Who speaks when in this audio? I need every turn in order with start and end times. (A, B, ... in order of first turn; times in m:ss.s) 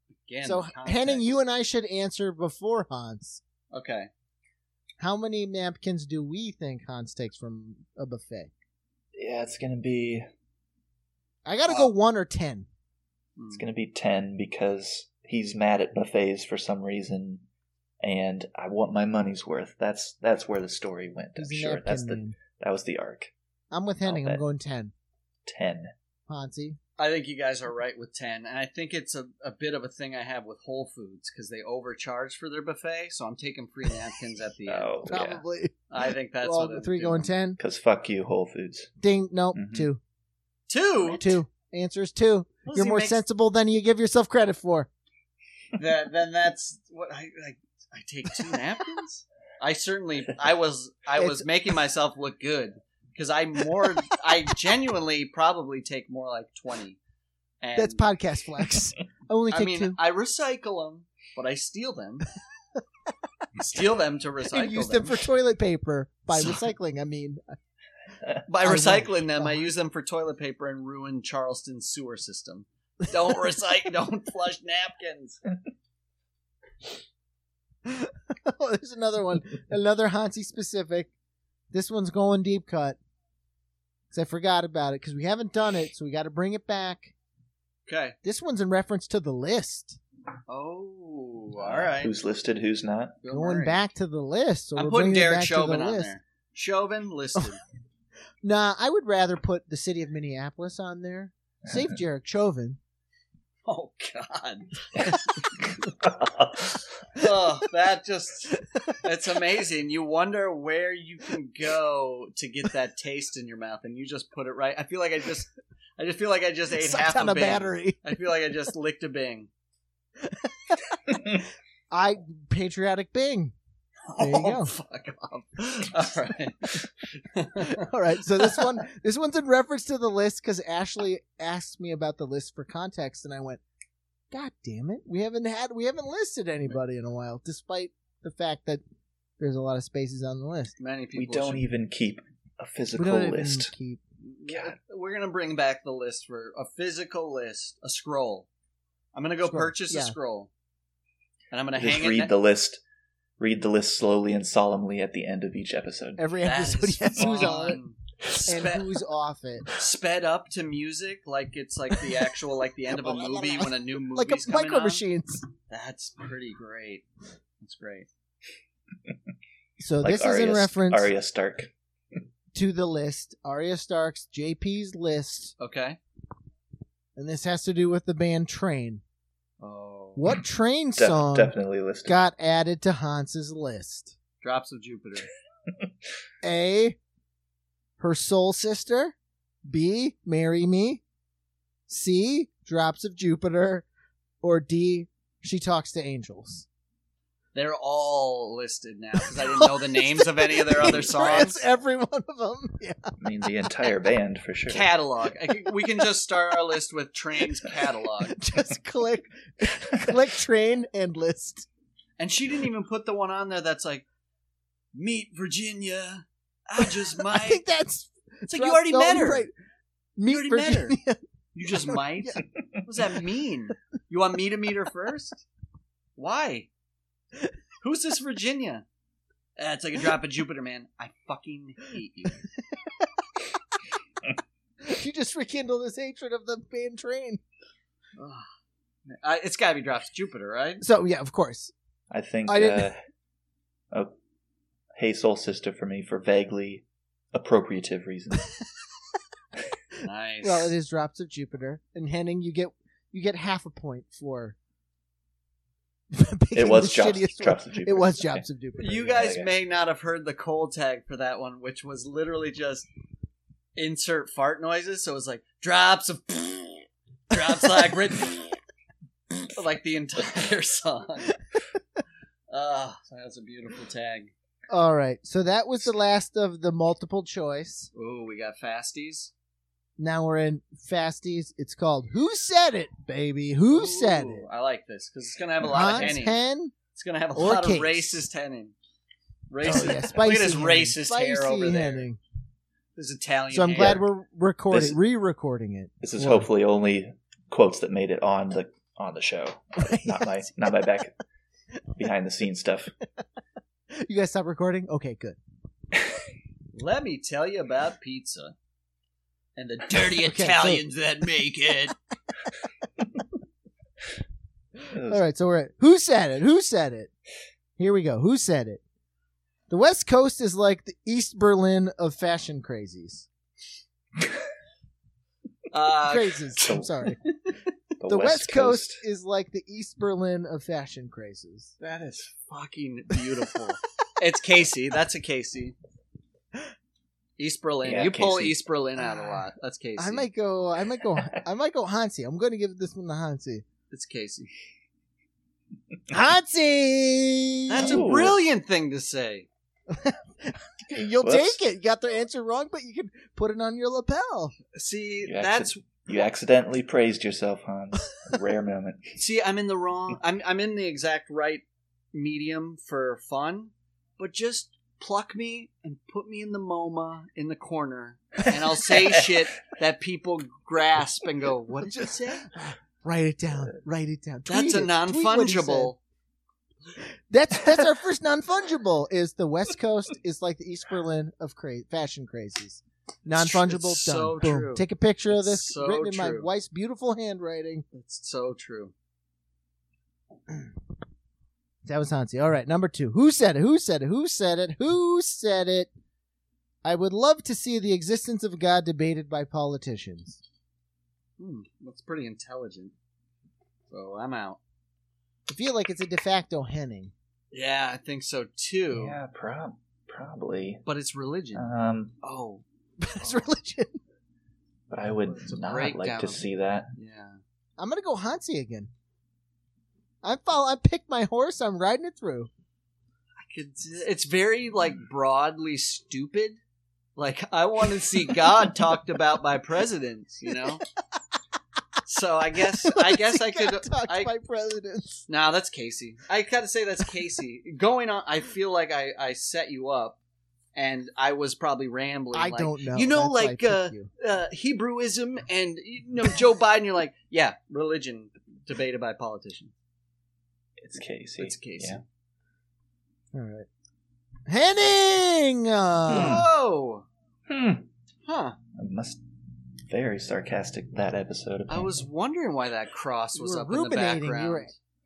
0:00.2-0:01.3 A
0:00.4-0:03.4 B
0:03.7-0:04.1 A
0:05.0-0:08.5 B
0:09.2-0:10.3 C
0:11.5-0:12.7 B
0:13.4-0:13.7 A
0:13.5-0:17.4 C
0:18.0-0:23.3 C
0:21.4-0:22.4 B
0:23.7-0:24.9 B
0:24.0-0:24.4 C
0:25.5-0:25.9 C
0:26.3-0:26.8 B
0:27.0-0:35.3 A
0:34.7-0:35.4 C
0:35.1-0:35.8 B
0:35.9-0:37.3 A
0:36.4-0:37.6 B
0:37.6-0:38.9 C
0:39.0-0:40.0 B
0:39.6-0:39.9 C
0:40.7-0:41.4 A
0:41.1-0:44.9 B
0:42.7-0:43.2 A
0:45.8-0:57.0 A
0:51.2-0:51.5 B
0:57.6-0:58.1 A
0:57.8-1:00.0 B
0:59.5-1:02.3 A
1:03.6-1:05.2 A
1:04.5-1:07.6 B
1:08.5-1:15.4 A
1:08.6-1:09.7 B
1:17.8-1:21.1 B
1:21.7-1:23.0 B
1:24.1-1:27.1 B
1:27.9-1:28.2 A
1:28.2-1:30.0 B
1:30.5-1:32.1 A
1:31.6-1:33.2 C
1:33.2-1:33.8 A
1:33.3-1:36.1 B
1:34.8-1:37.6 A
1:38.4-1:42.8 B
1:43.7-1:45.3 A
1:45.8-1:46.8 C
1:47.1-1:59.5 A
1:56.7-1:58.2 B
2:00.2-2:01.1 B
2:01.9-2:03.6 B
2:04.1-2:07.9 A
2:04.2-2:04.7 B
2:07.6-2:13.6 B
2:08.4-2:08.7 A
2:14.3-2:18.8 B
2:19.4-2:20.8 B
2:20.8-2:21.6 A
2:21.2-2:23.7 C
2:22.9-2:24.0 B
2:24.2-2:28.5 A
2:24.5-2:24.8 C
2:29.1-2:30.5 A
2:29.4-2:30.2 B
2:31.5-2:32.3 A
2:31.8-2:32.8 C
2:33.4-2:36.3 C
2:36.2-2:37.8 B
2:36.4-2:38.9 A
2:38.4-2:39.7 B
2:39.8-2:45.0 A
2:42.9-2:45.5 B
2:45.7-2:47.1 A
2:47.6-2:48.1 A
2:49.8-2:51.1 B
2:50.0-2:51.7 C
2:52.5-2:55.5 B
2:55.6-2:56.0 A
2:57.2-2:59.0 B
2:59.6-3:00.3 A
3:00.2-3:04.2 B
3:01.0-3:02.2 C
3:04.4-3:05.3 A
3:06.4-3:07.0 B
3:08.0-3:09.2 B
3:09.7-3:11.0 B
3:11.9-3:13.9 B
3:14.4-3:16.7 B
3:17.6-3:21.6 A
3:19.3-3:23.1 B
3:23.2-3:24.9 C
3:24.7-3:28.4 A
3:28.3-3:31.7 B
3:32.2-3:34.0 A
3:34.9-3:37.6 A
3:37.2-3:39.5 B
3:38.5-3:39.5 A
3:40.2-3:42.4 B
3:40.3-3:41.0 A
3:41.5-3:45.4 A
3:46.2-3:46.7 A
3:47.8-3:48.8 A
3:49.6-3:52.4 A
3:54.8-3:57.4 B
3:58.2-3:58.5 A
3:59.1-4:00.8 A
4:00.8-4:01.7 B
4:02.1-4:03.0 C
4:02.5-4:02.9 B
4:05.0-4:08.6 C
4:10.0-4:10.7 A
4:10.4-4:14.6 B
4:16.1-4:19.3 B
4:16.5-4:18.4 C
4:18.8-4:22.9 A
4:19.1-4:19.5 C
4:23.8-4:28.6 A
4:29.4-4:31.4 A
4:32.5-4:34.3 A
4:34.7-4:37.9 B
4:37.9-4:39.3 A
4:40.0-4:44.5 B
4:43.7-4:46.4 A
4:45.7-4:46.7 B
4:46.9-4:48.7 A
4:47.4-4:48.2 B
4:49.5-4:52.1 A
4:49.6-4:52.2 B
4:53.0-4:54.0 A
4:53.5-4:56.5 B
4:53.8-4:54.0 C
4:54.7-4:55.0 C
4:56.0-5:01.2 C
4:59.8-5:00.7 B
5:02.0-5:02.9 C
5:04.0-5:05.4 B
5:06.7-5:08.6 A
5:09.6-5:12.0 A
5:10.2-5:10.8 B
5:14.9-5:15.2 C
5:15.0-5:17.1 B
5:17.8-5:18.8 B
5:19.7-5:23.3 B
5:25.7-5:26.6 A
5:26.1-5:27.2 B
5:26.6-5:27.1 C
5:28.0-5:29.0 C
5:28.1-5:31.7 B
5:31.8-5:35.8 A
5:37.4-5:40.3 A
5:37.8-5:38.6 C
5:39.0-5:39.5 B
5:40.0-5:43.6 B
5:43.9-5:44.5 A
5:46.1-5:48.0 B
5:47.7-5:49.5 A
5:47.8-5:48.4 C
5:49.9-5:54.6 B
5:51.2-5:51.6 C
5:54.7-5:55.8 A
5:55.2-5:59.2 C
5:59.2-6:12.5 A
6:11.8-6:15.9 B
6:14.5-6:16.0 A
6:17.0-6:27.8 B
6:23.3-6:26.5 A
6:27.9-6:28.9 A
6:31.8-6:35.9 B
6:36.8-6:40.4 B
6:41.4-6:42.9 A
6:43.9-6:44.6 A
6:45.5-6:47.1 B
6:47.5-6:49.2 A
6:48.9-6:50.8 C
6:50.9-6:51.7 A
6:51.6-6:52.2 C
6:52.2-6:52.6 A
6:53.0-6:54.0 B
6:54.9-6:56.9 C
6:55.3-6:57.4 A
6:57.8-6:58.9 B
7:00.2-7:02.5 B
7:03.4-7:06.6 A
7:07.2-7:10.8 A
7:12.0-7:14.3 A
7:12.8-7:15.3 B
7:15.3-7:20.2 A
7:20.8-7:29.7 A
7:22.3-7:24.1 B
7:30.8-7:32.0 C
7:31.4-7:32.0 A
7:33.3-7:33.7 B
7:34.5-7:36.5 B
7:36.1-7:36.5 C
7:36.1-7:37.1 A
7:37.5-7:37.9 C
7:38.2-7:38.6 A
7:38.8-7:39.2 C
7:39.9-7:42.0 C
7:41.7-7:44.7 A
7:43.3-7:44.7 B